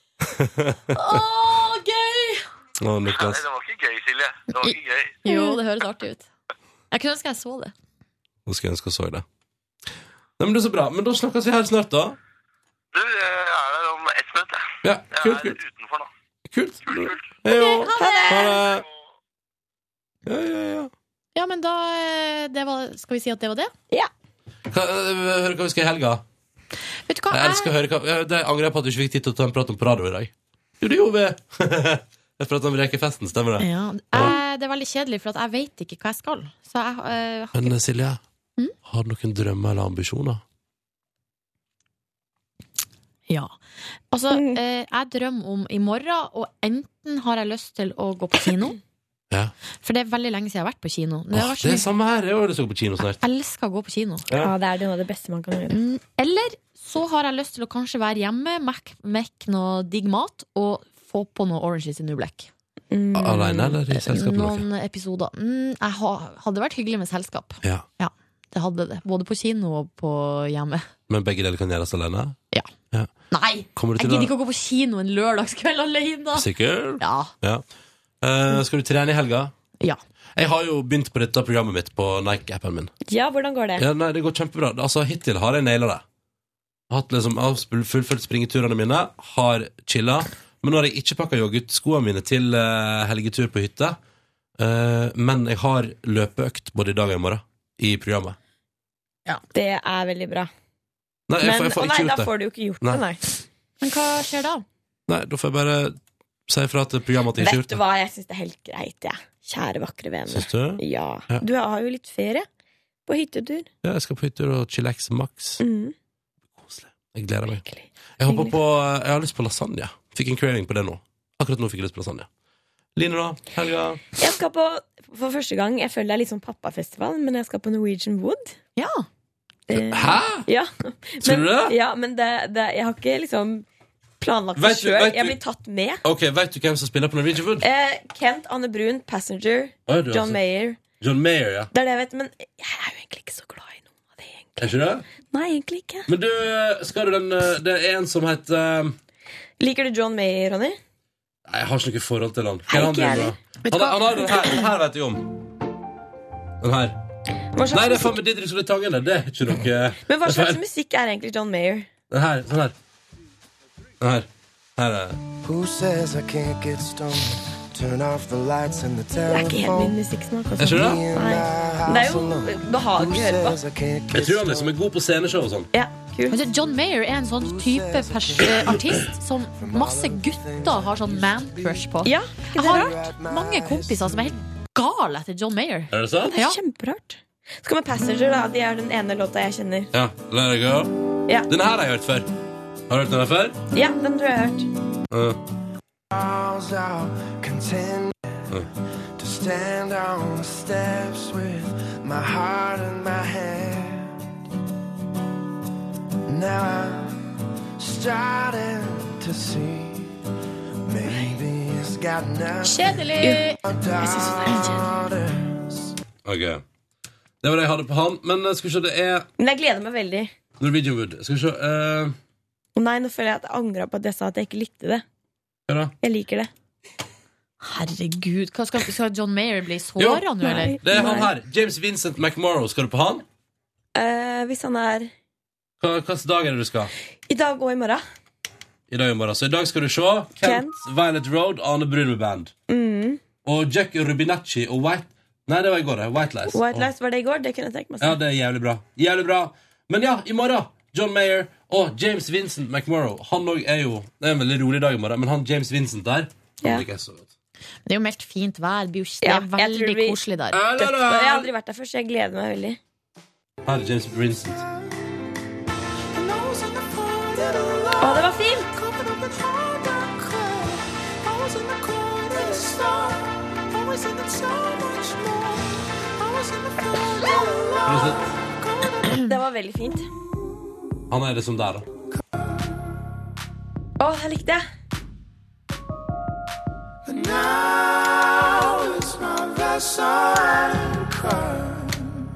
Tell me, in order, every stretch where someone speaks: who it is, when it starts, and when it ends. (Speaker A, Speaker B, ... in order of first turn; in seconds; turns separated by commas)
Speaker A: 0.2-1.2, Speaker B: 0.9-2.4, Speaker A: 2.8-3.4, Speaker C: 3.1-5.2, Speaker B: 4.5-6.3, Speaker D: 5.3-5.6, Speaker B: 6.9-7.7, Speaker A: 8.4-9.2, Speaker A: 10.4-12.2, Speaker C: 12.9-16.1, Speaker A: 14.8-15.6, Speaker A: 16.5-18.8, Speaker C: 16.9-17.2, Speaker B: 17.5-18.2, Speaker D: 18.0-18.6, Speaker C: 18.7-18.9, Speaker A: 20.2-20.9, Speaker B: 21.3-23.7, Speaker A: 24.7-26.2, Speaker B: 27.1-27.7, Speaker A: 27.3-34.3, Speaker B: 33.6-37.8, Speaker A: 37.5-38.2, Speaker A: 38.8-40.4, Speaker B: 43.3-43.5, Speaker B: 44.1-48.8, Speaker D: 44.3-44.6, Speaker B: 49.8-51.9, Speaker A: 51.3-53.2, Speaker B: 53.0-54.2, Speaker D: 54.4-55.8, Speaker B: 55.7-62.5, Speaker D: 62.9-63.7, Speaker A: 63.1-64.6, Speaker B: 63.9-70.9, Speaker A: 71.1-72.4, Speaker B: 73.3-77.3, Speaker A: 73.7-74.3, Speaker A: 76.3-77.6, Speaker A: 78.2-79.5, Speaker A: 80.3-82.9, Speaker D: 83.1-83.8, Speaker A: 83.8-86.0, Speaker A: 86.9-94.0, Speaker A: 94.6-98.4, Speaker D: 99.5-100.5, Speaker A: 101.3-102.3, Speaker D: 101.4-103.2, Speaker B: 103.8-104.6, Speaker A: 105.1-106.0, Speaker A: 106.5-107.8, Speaker D: 107.4-112.5, Speaker A: 110.3-111.4, Speaker D: 113.1-113.7, Speaker A: 113.8-115.6, Speaker D: 115.6-115.9, Speaker A: 116.6-117.6, Speaker D: 117.5-118.5, Speaker A: 118.2-122.3, Speaker A: 123.0-124.0, Speaker D: 124.2-128.6, Speaker B: 128.8-129.0, Speaker D: 129.7-133.7, Speaker A: 129.7-130.4, Speaker A: 131.2-131.7, Speaker D: 134.2-136.0, Speaker A: 134.6-135.4, Speaker A: 136.0-137.7, Speaker D: 137.6-140.8, Speaker A: 139.9-140.4, Speaker A: 141.0-141.7, Speaker D: 141.7-144.7, Speaker A: 144.6-145.0, Speaker D: 145.3-146.1, Speaker A: 146.1-148.9, Speaker D: 149.6-150.8, Speaker A: 151.5-155.3, Speaker D: 152.7-153.3, Speaker B: 153.6-154.3, Speaker A: 156.6-157.0, Speaker D: 157.5-158.2, Speaker A: 157.7-160.6, Speaker D: 160.1-161.9, Speaker A: 162.1-162.7, Speaker A: 164.0-165.2, Speaker E: 165.4-170.0, Speaker D: 169.3-173.6, Speaker A: 170.6-171.0, Speaker E: 170.7-174.7, Speaker A: 174.1-175.7, Speaker D: 175.7-176.4, Speaker B: 176.3-186.6, Speaker E: 177.3-179.0, Speaker E: 179.5-181.9, Speaker D: 182.0-183.0, Speaker E: 182.7-184.3, Speaker A: 185.9-186.3, Speaker D: 186.2-189.9, Speaker A: 189.9-190.9, Speaker A: 191.5-192.3, Speaker A: 192.9-193.6, Speaker D: 193.7-194.7, Speaker A: 195.1-195.4, Speaker E: 196.1-198.5, Speaker E: 199.2-204.1, Speaker E: 206.3-207.2, Speaker E: 207.8-210.1, Speaker E: 210.8-215.9, Speaker D: 211.1-211.3, Speaker B: 212.6-213.6, Speaker D: 213.2-213.4, Speaker D: 214.0-214.8, Speaker A: 216.2-216.6, Speaker A: 217.4-219.3, Speaker D: 219.4-220.3, Speaker A: 220.6-222.2, Speaker D: 222.8-225.0, Speaker A: 225.7-225.9, Speaker D: 226.0-226.5, Speaker B: 227.6-230.8, Speaker A: 230.0-230.2, Speaker D: 230.4-231.3, Speaker A: 230.8-233.2, Speaker D: 233.9-235.1, Speaker A: 235.8-236.9, Speaker D: 237.3-238.0, Speaker A: 238.9-242.5, Speaker D: 240.4-240.7, Speaker D: 242.7-243.2, Speaker A: 243.4-246.9, Speaker D: 246.5-248.2, Speaker A: 248.0-257.3, Speaker B: 257.9-260.6, Speaker D: 259.2-260.2, Speaker A: 260.5-261.5, Speaker D: 260.8-262.8, Speaker A: 263.6-264.6, Speaker E: 266.2-268.1, Speaker D: 268.0-268.7, Speaker E: 271.4-273.2, Speaker E: 273.9-275.6, Speaker E: 276.2-278.1, Speaker A: 277.9-278.3, Speaker D: 279.2-280.1, Speaker A: 281.1-281.9, Speaker D: 284.0-284.6, Speaker E: 287.1-292.2